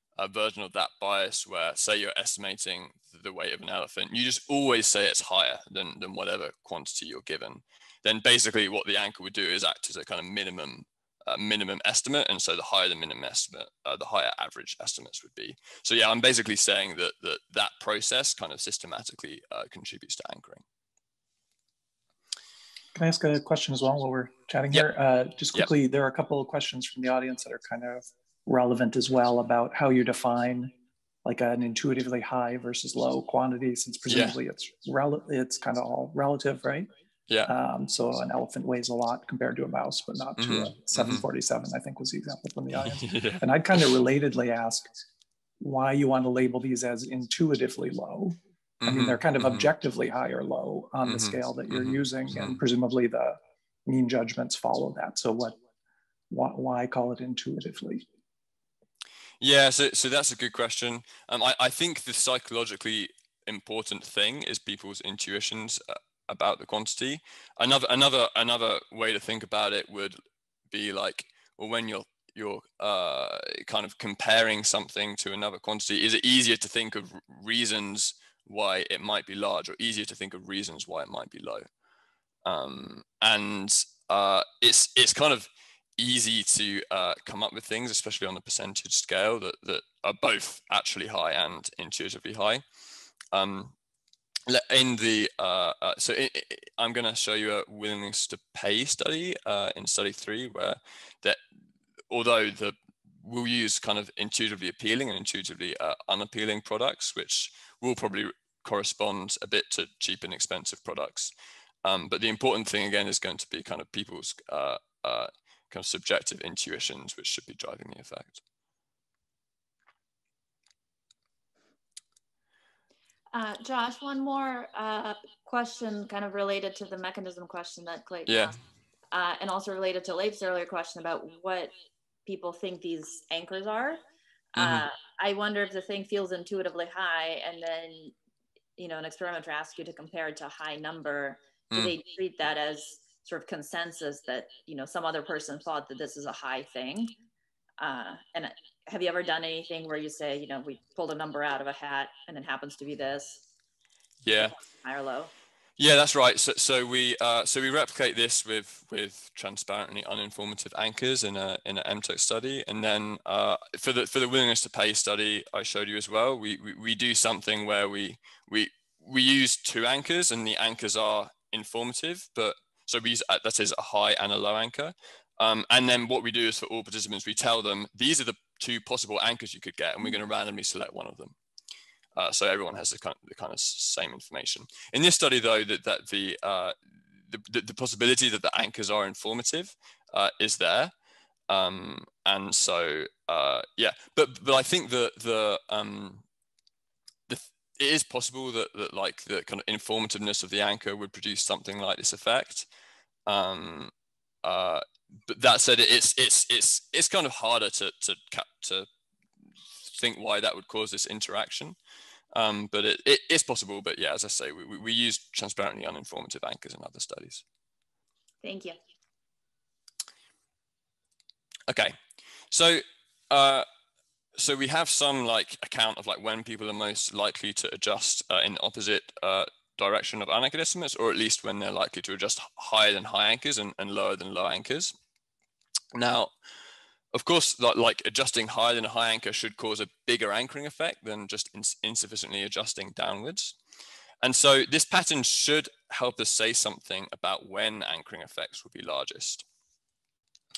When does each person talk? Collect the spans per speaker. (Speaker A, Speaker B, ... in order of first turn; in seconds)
Speaker A: 0.2-20.6, 34.1-34.4, 40.4-41.2, 42.8-43.4, 48.8-49.7, 51.0-52.6, 59.4-70.2, 70.7-81.7, 82.4-92.6, 93.3-93.7, 94.5-101.4, 102.1-111.3, 111.8-118.4, 128.3-128.5, 134.6-134.9, 154.2-154.5, 155.8-181.3, 182.2-186.7, 187.3-190.9, 191.5-196.2, 197.3-202.7, 203.3-203.9, 204.4-208.9, 209.8-211.8, 212.3-217.4, 221.7-221.9, 222.5-223.7, 224.4-234.9, 235.9-236.3, 237.1-243.6, 244.2-249.4
Speaker B: 22.9-30.7, 31.2-36.9, 37.5-44.9, 45.6-55.6, 56.3-58.0
Speaker C: 123.3-128.5, 129.1-131.7, 132.2-134.0, 134.6-138.1, 138.8-147.1, 147.8-153.4, 154.3-155.3, 218.4-218.8